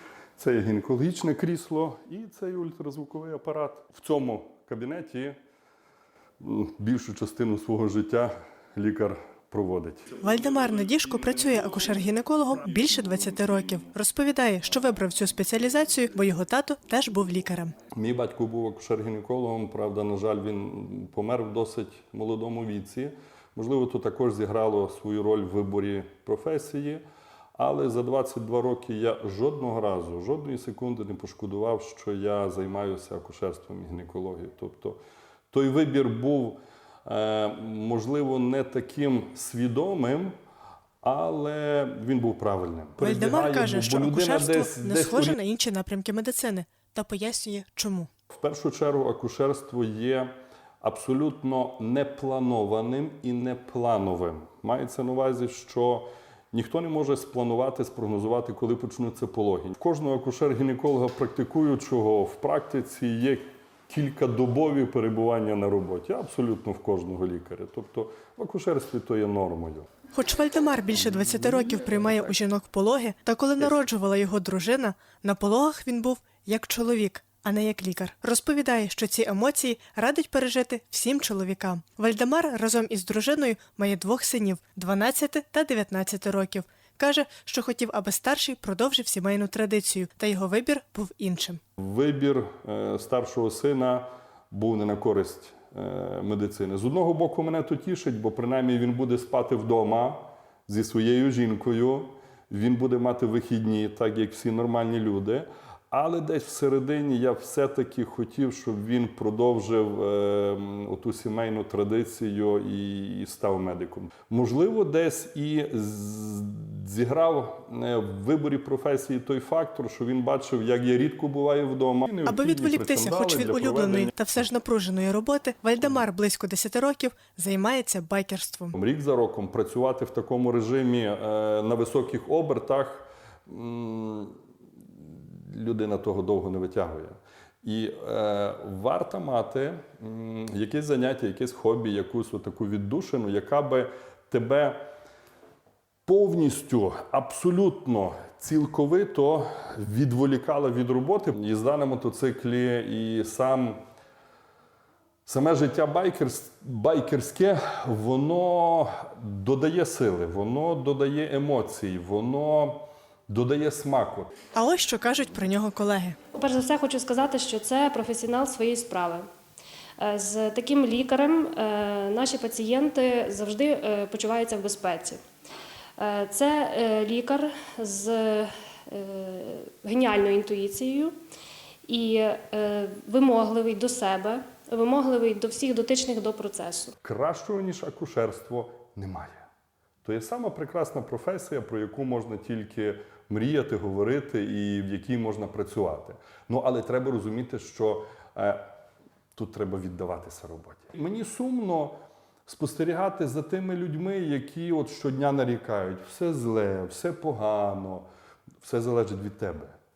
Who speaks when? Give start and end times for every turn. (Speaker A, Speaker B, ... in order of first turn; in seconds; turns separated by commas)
Speaker A: 0.4-5.4, Speaker A: 6.4-10.1, Speaker B: 10.2-17.7, Speaker A: 17.9-27.0, Speaker A: 27.6-35.0, Speaker A: 35.5-40.3, Speaker A: 41.0-45.4, Speaker B: 43.0-48.1, Speaker A: 48.3-69.9, Speaker B: 70.1-91.6, Speaker A: 91.8-124.1, Speaker B: 122.2-128.8, Speaker A: 128.7-134.4, Speaker A: 135.0-144.8, Speaker A: 146.1-153.8, Speaker A: 155.3-164.3, Speaker B: 164.5-166.2, Speaker C: 166.3-169.3, Speaker C: 170.0-175.2, Speaker C: 176.0-181.2, Speaker C: 181.9-186.9, Speaker A: 187.0-189.5, Speaker A: 190.0-198.7, Speaker A: 199.3-208.1, Speaker A: 208.6-209.7